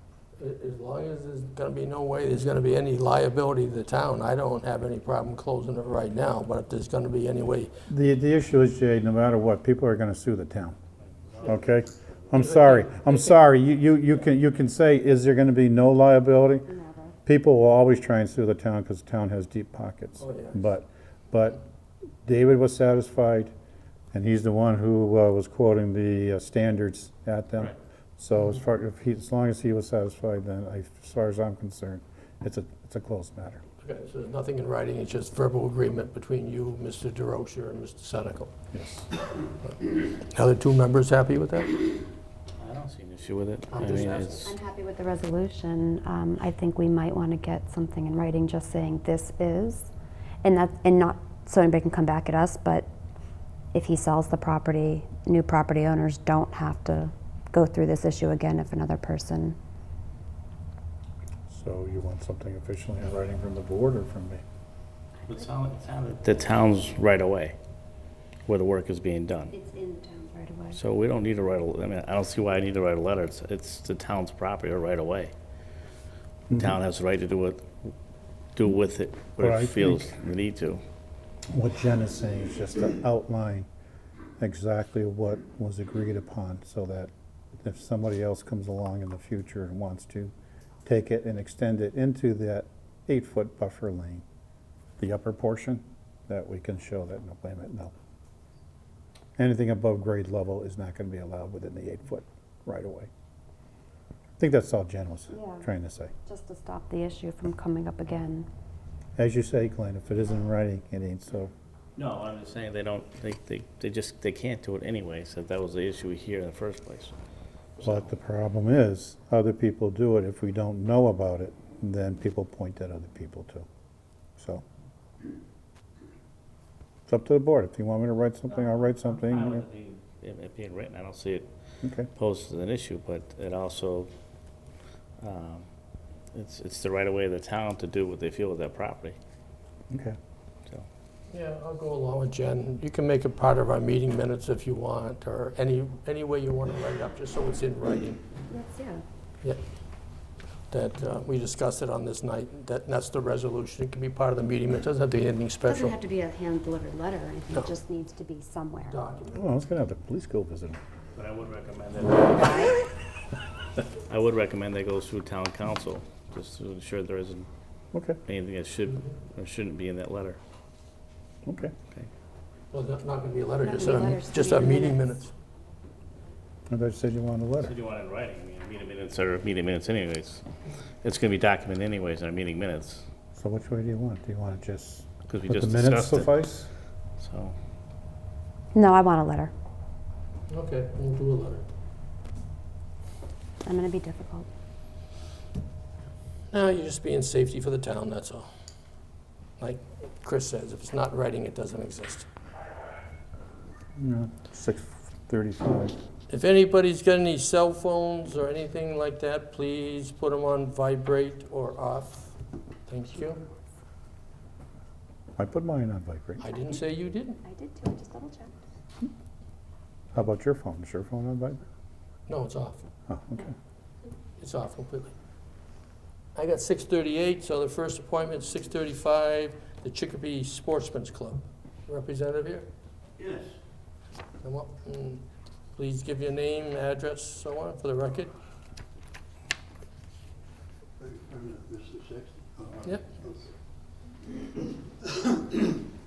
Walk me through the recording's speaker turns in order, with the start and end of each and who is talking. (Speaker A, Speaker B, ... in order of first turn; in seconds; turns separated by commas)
Speaker A: 0.4-7.7, Speaker B: 7.9-10.8, Speaker C: 11.3-11.7, Speaker B: 11.5-16.7, Speaker A: 12.4-13.5, Speaker D: 16.7-17.1, Speaker B: 17.2-21.6, Speaker A: 20.2-20.7, Speaker B: 22.2-23.5, Speaker B: 24.1-33.6, Speaker A: 33.8-38.5, Speaker B: 38.7-39.1, Speaker A: 39.6-41.8, Speaker C: 42.6-44.5, Speaker A: 43.7-44.5, Speaker D: 44.4-49.9, Speaker D: 50.4-52.9, Speaker D: 53.7-59.6, Speaker B: 61.5-64.4, Speaker C: 65.2-67.5, Speaker C: 68.5-69.5, Speaker D: 69.5-70.8, Speaker C: 70.7-75.3, Speaker B: 76.5-76.8, Speaker C: 76.5-77.9, Speaker C: 78.5-80.8, Speaker B: 79.4-80.1, Speaker B: 81.5-83.7, Speaker B: 84.4-90.3, Speaker B: 90.8-94.2, Speaker B: 95.0-97.9, Speaker B: 99.4-103.1, Speaker B: 104.4-106.1, Speaker D: 105.3-105.7, Speaker D: 106.2-108.5, Speaker B: 109.2-111.5, Speaker C: 112.0-117.1, Speaker C: 117.8-118.1, Speaker B: 117.8-123.7, Speaker B: 124.4-124.6, Speaker B: 127.1-129.6, Speaker C: 129.1-131.5, Speaker B: 131.8-132.1, Speaker C: 132.1-134.1, Speaker C: 135.2-135.7, Speaker C: 136.3-139.2, Speaker B: 139.9-140.2, Speaker A: 141.3-148.2, Speaker D: 148.5-149.0, Speaker A: 150.7-155.9, Speaker D: 155.6-159.0, Speaker A: 158.8-159.5, Speaker B: 159.3-160.8, Speaker C: 161.1-162.7, Speaker D: 162.3-162.7, Speaker C: 164.0-167.5, Speaker B: 167.9-168.2, Speaker C: 168.2-170.4, Speaker B: 171.4-171.7, Speaker A: 172.7-175.3, Speaker D: 173.6-175.1, Speaker B: 176.7-177.7, Speaker C: 177.6-180.4, Speaker C: 181.0-183.0, Speaker B: 183.3-186.7, Speaker C: 185.3-186.3, Speaker C: 187.2-187.6, Speaker D: 188.7-189.5, Speaker A: 190.5-191.6, Speaker D: 193.6-194.5, Speaker A: 196.5-198.5, Speaker A: 199.6-202.3, Speaker B: 204.0-205.9, Speaker A: 206.3-213.4, Speaker B: 215.4-216.4, Speaker A: 216.4-217.4, Speaker D: 216.5-216.8, Speaker D: 217.4-218.6, Speaker B: 220.1-221.6, Speaker A: 222.3-222.8, Speaker B: 223.1-223.5, Speaker A: 224.4-225.1, Speaker A: 226.3-232.7, Speaker E: 233.2-233.5, Speaker A: 234.4-235.2, Speaker A: 235.8-238.3, Speaker E: 241.0-243.5, Speaker E: 245.1-245.6